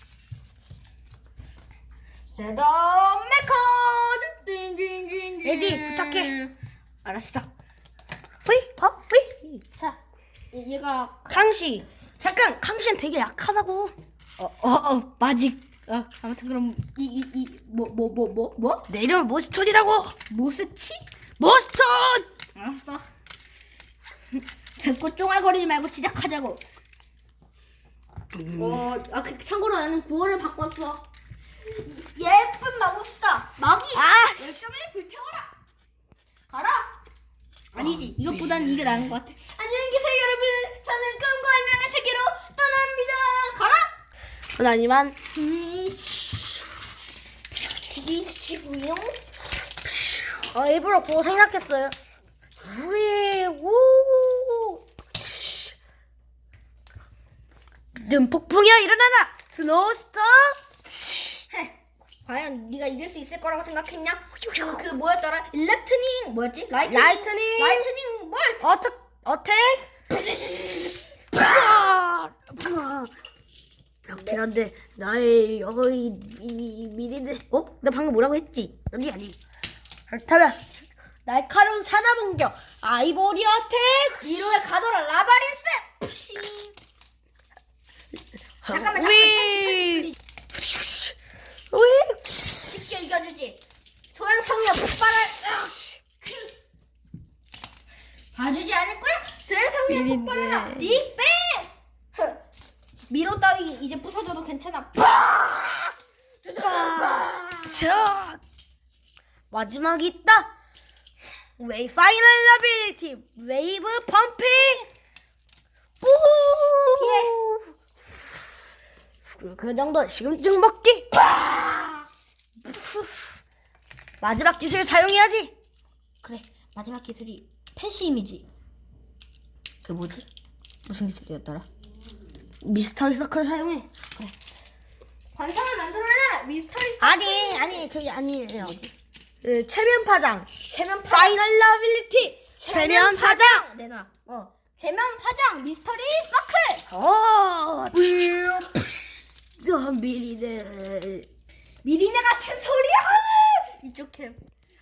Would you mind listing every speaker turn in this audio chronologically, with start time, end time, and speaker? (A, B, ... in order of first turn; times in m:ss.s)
0:02.3-0:06.5 A
0:05.4-0:06.3 B
0:07.0-0:07.5 A
0:08.4-0:09.6 B
0:10.5-0:11.4 A
0:11.3-0:14.0 B
0:14.4-0:18.9 A
0:18.9-0:20.2 B
0:20.3-0:21.1 A
0:21.4-0:22.3 B
0:22.6-0:23.1 A
0:24.8-0:26.6 A
0:28.3-0:28.8 B
0:28.6-0:31.0 A
0:31.6-0:35.5 A
0:33.9-0:34.6 B
0:36.5-0:37.0 A
0:37.7-0:43.9 A
0:44.6-0:45.2 B
0:45.3-0:46.6 A
0:47.5-0:49.2 A
0:49.8-0:52.0 B
0:52.6-0:55.7 B
0:58.0-1:01.4 B
1:01.5-1:08.7 A
1:04.4-1:04.8 B
1:06.9-1:07.9 B
1:08.6-1:13.1 B
1:14.1-1:19.4 B
1:20.1-1:20.6 B
1:21.3-1:24.6 B
1:24.2-1:26.8 A
1:28.6-1:31.2 B
1:28.7-1:30.1 A
1:31.7-1:32.8 B
1:32.6-1:33.6 A
1:34.1-1:36.5 A
1:38.3-1:42.4 A
1:39.9-1:41.0 B
1:43.1-1:45.2 A
1:45.2-1:45.9 B
1:46.5-1:48.4 B
1:46.6-1:47.3 A
1:49.5-1:50.5 B
1:51.6-1:54.9 B
1:56.0-1:57.7 B
1:57.0-1:57.4 A
1:59.3-2:02.1 B
2:02.6-2:03.1 B
2:04.2-2:05.5 B
2:06.2-2:08.5 A
2:09.8-2:10.3 A
2:10.9-2:11.7 A
2:12.6-2:13.9 B
2:15.3-2:17.9 A
2:17.0-2:18.8 B
2:18.6-2:18.9 A
2:19.4-2:20.5 B
2:20.7-2:21.4 A
2:21.1-2:23.7 B
2:22.6-2:26.8 A
2:26.9-2:31.3 B
2:28.0-2:28.7 A
2:31.8-2:34.4 A